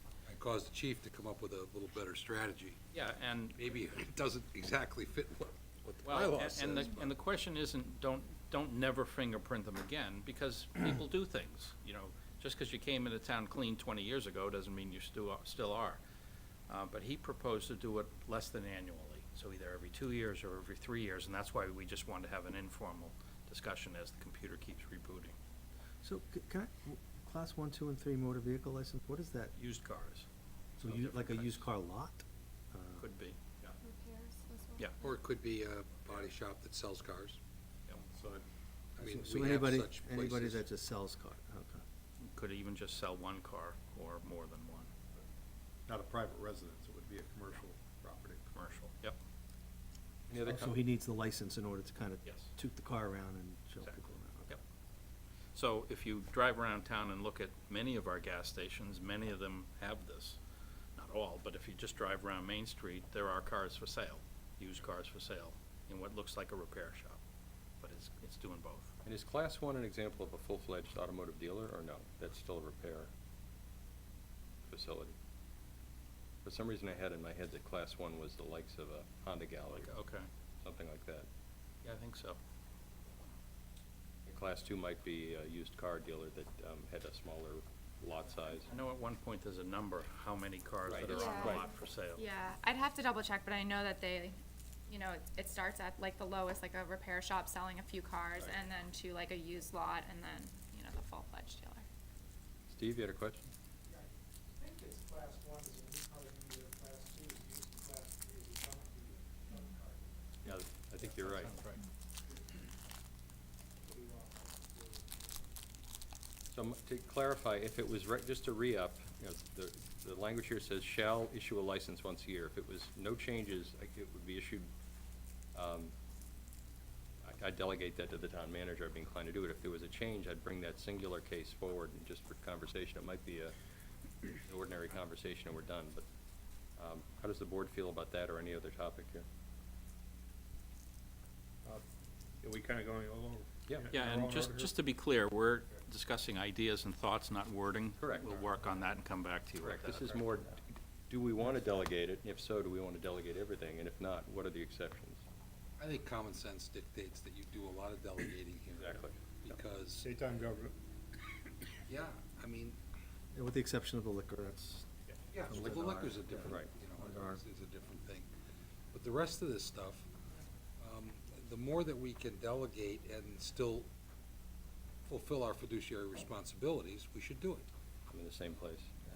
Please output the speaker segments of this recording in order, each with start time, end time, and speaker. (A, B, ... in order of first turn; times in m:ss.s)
0:00.2-0:02.8 A
0:02.9-0:03.6 B
0:03.6-0:07.1 A
0:06.0-0:16.0 B
0:16.7-0:25.3 B
0:26.0-0:29.5 C
0:29.5-0:30.3 B
0:30.8-0:33.0 C
0:30.8-0:31.6 B
0:33.0-0:33.4 B
0:33.8-0:35.1 D
0:35.0-0:37.4 A
0:38.1-0:38.4 E
0:39.0-0:40.6 A
0:39.0-0:41.8 C
0:42.2-0:44.9 B
0:45.9-0:48.4 E
0:48.5-0:49.2 B
0:50.3-0:50.8 F
0:50.4-0:54.6 C
0:53.8-0:54.6 B
0:55.5-1:00.4 B
1:01.0-1:07.2 B
1:07.8-1:08.9 B
1:09.0-1:13.1 F
1:14.6-1:15.1 F
1:16.4-1:19.9 F
1:19.7-1:20.3 B
1:20.6-1:21.3 F
1:21.8-1:22.4 B
1:24.2-1:28.7 F
1:28.7-1:32.3 B
1:30.9-1:31.7 F
1:31.1-1:34.3 D
1:34.9-1:41.8 D
1:42.7-1:43.5 F
1:44.6-1:49.2 G
1:50.4-1:51.6 F
1:51.2-1:51.8 B
1:56.5-2:04.7 F
2:05.5-2:05.9 F
2:07.2-2:13.5 F
2:14.4-2:16.0 F
2:16.8-2:19.2 F
2:22.4-2:24.7 E
2:23.9-2:30.2 B
2:28.0-2:28.4 F
2:29.6-2:35.2 F
2:35.8-2:40.2 A
2:38.8-2:39.2 F
2:40.0-2:40.7 E
2:41.9-2:42.8 A
2:43.3-2:44.9 C
2:45.3-2:48.3 A
2:45.4-2:47.4 C
2:46.4-2:46.7 F
2:48.9-2:50.1 A
2:50.8-2:53.9 A
2:55.1-2:57.7 A
2:58.1-2:58.9 F